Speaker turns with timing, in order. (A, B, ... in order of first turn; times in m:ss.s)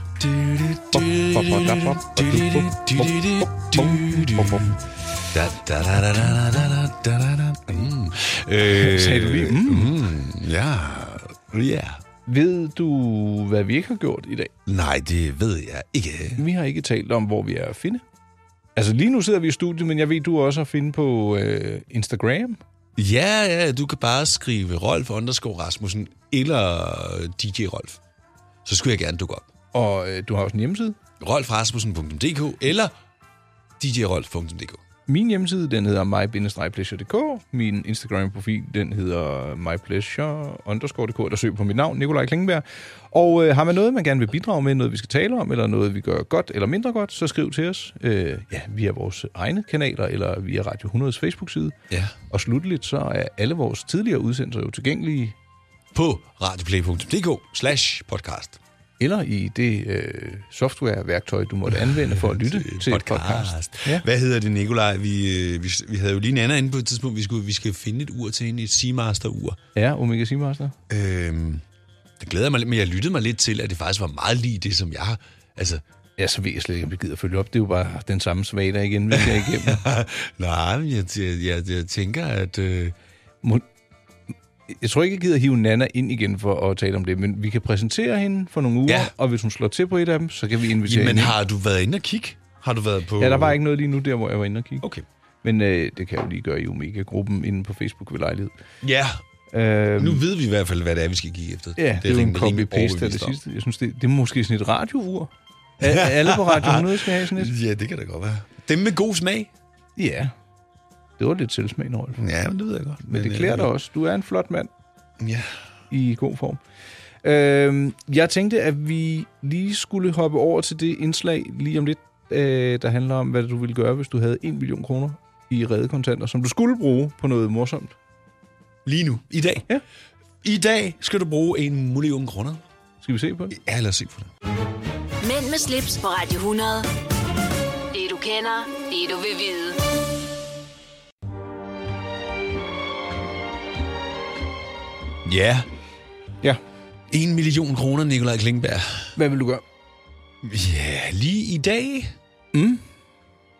0:00.2-0:04.8 A
0:00.9-0:04.7 B
0:05.3-0:12.0 A
0:08.6-0:09.9 B
0:12.2-0:14.5 B
0:14.6-0:16.4 A
0:16.4-0:18.0 B
0:18.8-0:22.6 B
0:23.0-0:28.0 A
0:28.6-0:29.5 A
0:29.7-0:31.0 B
0:31.2-0:32.9 A
0:33.8-0:34.8 A
0:35.1-0:51.8 B
0:51.9-0:52.1 A
0:52.3-0:55.3 B
0:55.9-0:58.6 A
0:59.0-1:04.0 B
1:01.7-1:09.6 A
1:09.7-1:10.8 B
1:10.9-1:11.6 A
1:12.2-1:15.8 A
1:16.2-1:19.8 B
1:19.1-1:22.9 A
1:24.7-1:31.4 B
1:30.8-1:33.6 A
1:33.2-1:34.8 B
1:35.4-1:38.5 B
1:38.8-1:39.2 A
1:39.5-1:40.2 B
1:40.0-1:43.4 A
1:41.8-1:47.5 B
1:45.8-1:49.5 A
1:50.0-1:50.3 B
1:51.2-1:52.2 B
1:52.2-1:53.7 A
1:53.0-1:54.7 B
1:55.2-1:55.6 A
1:55.9-1:56.6 B
1:57.2-2:07.9 B
2:08.8-2:09.6 A
2:10.4-2:12.6 A
2:13.0-2:13.6 B
2:13.5-2:14.3 A
2:15.2-2:16.9 C
2:17.9-2:19.9 C
2:25.2-2:25.7 A
2:27.1-2:29.1 A
2:29.2-2:29.6 B
2:30.4-2:32.1 A
2:32.5-2:32.8 B